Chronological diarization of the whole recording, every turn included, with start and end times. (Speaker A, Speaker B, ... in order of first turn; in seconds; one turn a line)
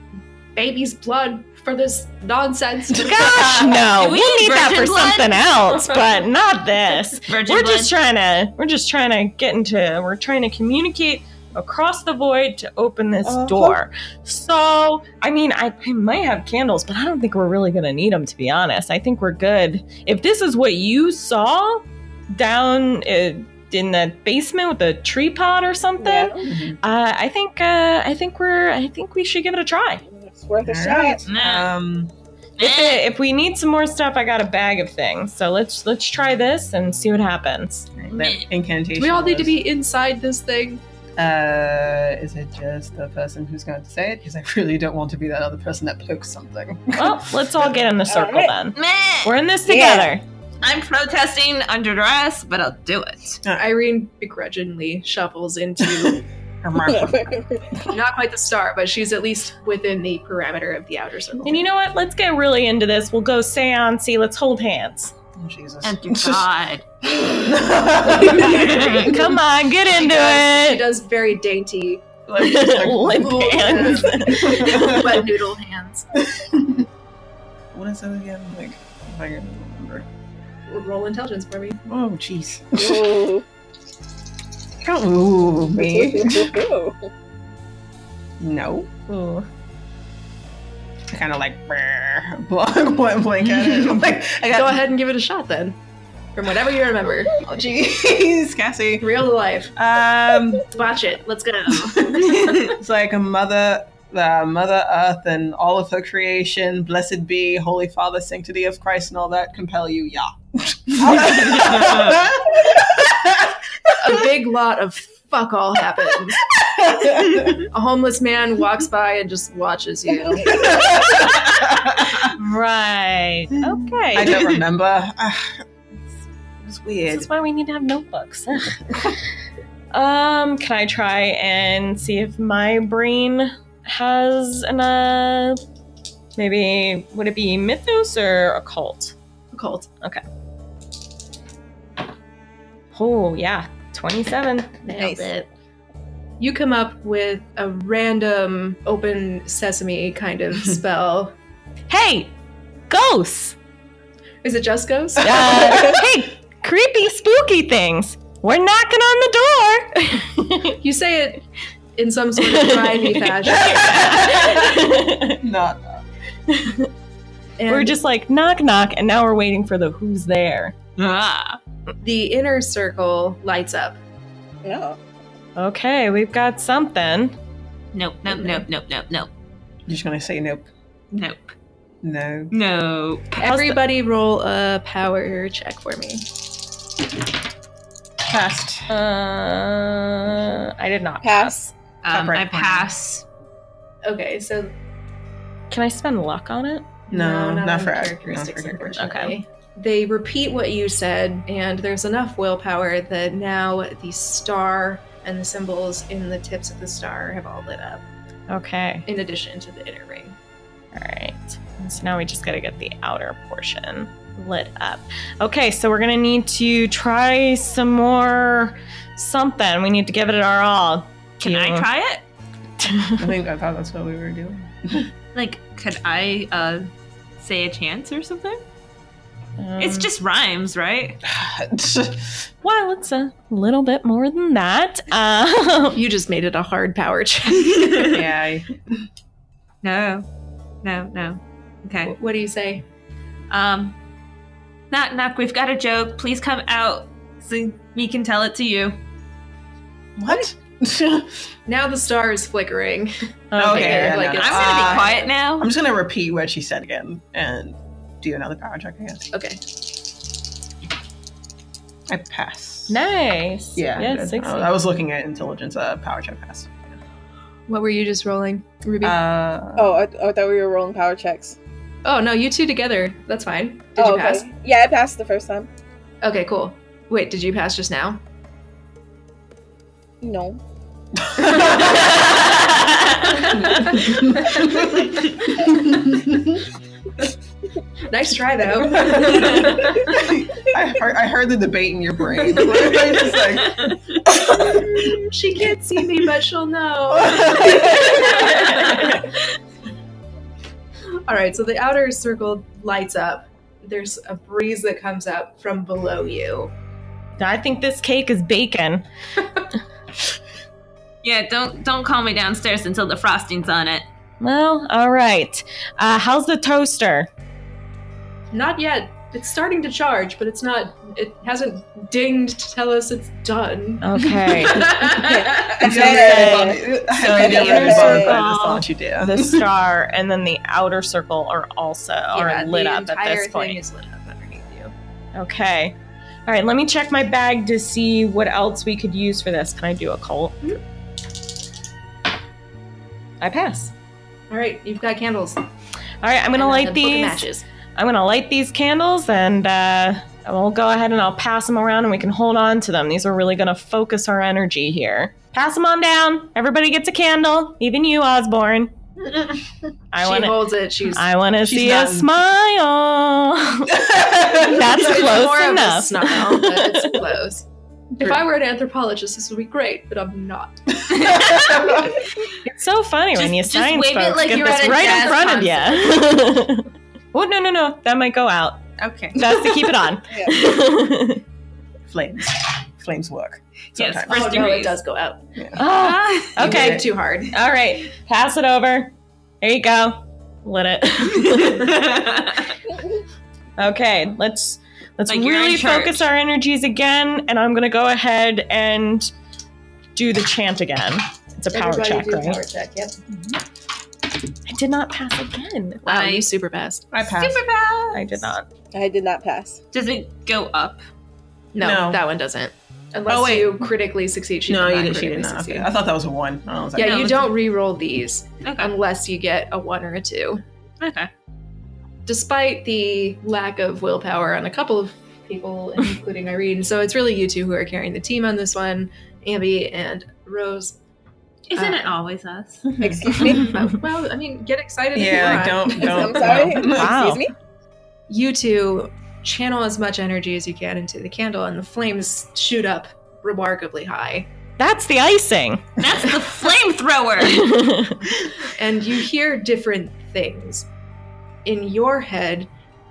Speaker A: 0.6-3.7
Speaker B: 3.0-30.0
Speaker C: 3.2-3.5
Speaker D: 3.3-5.8
Speaker A: 5.9-6.2
Speaker D: 7.3-7.9
Speaker E: 13.2-13.8
Speaker E: 26.0-26.4
Speaker C: 26.4-26.8
Speaker E: 30.1-31.2
Speaker C: 30.6-32.1
Speaker D: 31.3-31.7
Speaker D: 32.6-33.0
Speaker B: 32.6-38.0
Speaker C: 38.0-39.6
Speaker D: 38.2-38.5
Speaker A: 39.0-40.8
Speaker C: 41.2-47.8
Speaker B: 47.0-50.2
Speaker E: 48.1-48.5
Speaker D: 48.8-49.4
Speaker E: 49.7-50.1
Speaker D: 50.6-53.4
Speaker C: 53.4-53.7
Speaker A: 53.6-56.2
Speaker C: 55.8-57.9
Speaker E: 56.8-57.7
Speaker A: 57.9-61.7
Speaker B: 61.4-65.1
Speaker C: 65.4-66.5
Speaker D: 65.8-66.8
Speaker C: 67.0-69.3
Speaker D: 68.3-69.2
Speaker B: 68.7-70.8
Speaker A: 69.9-72.0
Speaker C: 72.3-75.2
Speaker B: 72.4-75.1
Speaker A: 73.1-76.1
Speaker C: 76.2-76.8
Speaker C: 77.7-80.1
Speaker A: 80.7-81.8
Speaker C: 81.9-83.3
Speaker E: 82.8-83.5
Speaker C: 84.8-86.6
Speaker E: 85.8-87.1
Speaker C: 88.4-88.9
Speaker B: 89.1-89.5
Speaker C: 91.1-94.8
Speaker A: 94.5-95.8
Speaker A: 96.3-97.4
Speaker C: 97.3-99.2
Speaker A: 99.0-99.7
Speaker C: 99.8-100.7
Speaker A: 100.7-102.3
Speaker C: 101.7-114.1
Speaker D: 102.4-102.7
Speaker A: 114.0-116.4
Speaker C: 116.5-117.6
Speaker A: 117.6-121.1
Speaker C: 120.4-122.3
Speaker B: 122.2-124.5
Speaker C: 123.6-125.6
Speaker C: 126.6-127.3
Speaker B: 127.1-129.2
Speaker B: 129.9-135.6
Speaker B: 136.4-139.2
Speaker A: 139.5-139.9
Speaker B: 142.9-144.9
Speaker A: 144.9-145.5
Speaker E: 144.9-145.3
Speaker A: 146.4-151.3
Speaker B: 151.9-152.3
Speaker B: 152.9-153.6
Speaker A: 154.4-155.7
Speaker B: 155.2-160.8
Speaker C: 155.2-156.0
Speaker A: 160.8-161.4
Speaker A: 162.0-164.2
Speaker B: 162.4-165.4
Speaker C: 163.5-166.0
Speaker B: 166.5-166.9
Speaker A: 167.6-168.0
Speaker B: 167.7-170.8
Speaker D: 171.0-171.6
Speaker A: 172.0-174.0
Speaker E: 174.6-175.0
Speaker B: 175.6-177.4
Speaker D: 177.9-179.3
Speaker A: 178.3-178.6
Speaker C: 179.9-180.7
Speaker D: 181.1-181.6
Speaker C: 182.0-182.5
Speaker D: 182.5-183.5
Speaker A: 183.3-186.2
Speaker C: 188.2-188.9
Speaker B: 188.9-191.7
Speaker E: 191.2-191.6
Speaker D: 192.0-193.2
Speaker C: 192.1-192.9
Speaker A: 194.0-194.7
Speaker B: 195.7-197.0
Speaker A: 197.1-208.0
Speaker C: 197.1-199.1
Speaker B: 199.0-199.4
Speaker B: 208.5-209.1
Speaker A: 209.1-210.4
Speaker B: 210.9-221.9
Speaker D: 221.4-222.2
Speaker B: 222.8-223.3
Speaker C: 223.2-225.1
Speaker D: 225.3-226.9
Speaker D: 227.4-228.6
Speaker B: 229.6-230.1
Speaker D: 229.8-231.2
Speaker C: 231.2-232.5
Speaker B: 232.6-236.0
Speaker A: 235.9-238.2
Speaker D: 237.8-238.1
Speaker C: 238.1-238.8
Speaker D: 239.8-240.3
Speaker D: 240.8-242.2
Speaker A: 242.1-242.8
Speaker D: 243.5-244.0
Speaker D: 244.9-249.0
Speaker C: 250.2-251.4
Speaker A: 251.7-255.3
Speaker B: 253.5-254.4
Speaker C: 253.6-259.3
Speaker D: 254.4-255.7
Speaker A: 259.3-259.6
Speaker C: 262.1-263.0
Speaker B: 262.9-264.7
Speaker C: 263.8-267.0
Speaker A: 267.7-269.2
Speaker C: 269.0-270.0
Speaker E: 269.8-271.6
Speaker A: 272.1-274.5
Speaker E: 274.0-275.7
Speaker A: 276.2-278.2
Speaker E: 280.2-280.6
Speaker C: 281.3-282.2
Speaker D: 281.9-283.0
Speaker C: 283.6-285.1
Speaker A: 283.6-284.8
Speaker C: 285.6-286.6
Speaker A: 288.1-290.2
Speaker C: 288.8-294.0
Speaker A: 292.6-293.1
Speaker C: 294.5-295.1
Speaker A: 294.5-299.1
Speaker C: 297.1-298.4
Speaker A: 301.3-306.7
Speaker B: 307.4-309.1
Speaker D: 311.2-314.1
Speaker B: 314.4-317.3
Speaker A: 318.5-325.4
Speaker B: 324.0-325.1
Speaker E: 325.1-328.4
Speaker C: 325.7-329.7
Speaker B: 325.9-333.8
Speaker A: 332.3-334.9
Speaker B: 335.4-340.6
Speaker B: 343.4-343.9
Speaker A: 344.5-345.6
Speaker B: 346.2-358.9
Speaker A: 346.5-347.6
Speaker B: 360.1-367.3
Speaker A: 360.2-361.2
Speaker C: 361.6-362.3
Speaker C: 363.9-364.8
Speaker A: 364.7-367.7
Speaker A: 368.2-371.4
Speaker C: 371.1-372.1
Speaker D: 371.2-371.9
Speaker B: 372.6-378.8
Speaker D: 373.4-376.1
Speaker A: 374.8-375.7
Speaker D: 379.0-379.5
Speaker B: 379.4-381.4
Speaker E: 380.3-380.6
Speaker C: 382.1-384.7
Speaker D: 384.0-385.0
Speaker A: 384.3-385.4
Speaker C: 385.6-385.9
Speaker B: 385.8-392.1
Speaker D: 386.0-386.8
Speaker A: 386.6-387.6
Speaker C: 386.6-387.0
Speaker D: 391.4-392.7
Speaker B: 393.8-399.3
Speaker D: 395.3-396.3
Speaker B: 400.1-402.6
Speaker A: 401.7-403.2
Speaker B: 404.7-406.0
Speaker D: 406.1-406.5
Speaker A: 406.1-407.1
Speaker C: 407.1-407.6
Speaker D: 407.4-408.4
Speaker B: 408.1-408.7
Speaker E: 408.9-409.8
Speaker D: 409.9-411.0
Speaker A: 411.7-415.9
Speaker C: 411.8-412.2
Speaker C: 413.3-413.9
Speaker C: 414.7-417.5
Speaker A: 417.0-420.6
Speaker D: 417.0-417.5
Speaker D: 418.6-418.9
Speaker D: 421.0-421.3
Speaker A: 422.3-431.0
Speaker D: 431.7-432.9
Speaker A: 431.8-432.1
Speaker C: 433.0-433.3
Speaker E: 433.0-433.8
Speaker A: 433.3-436.8
Speaker C: 435.1-437.3
Speaker E: 436.0-437.5
Speaker B: 436.8-437.4
Speaker A: 438.3-444.5
Speaker B: 444.8-445.9
Speaker D: 446.0-447.7
Speaker B: 447.4-448.3
Speaker A: 448.7-450.9
Speaker A: 451.6-452.7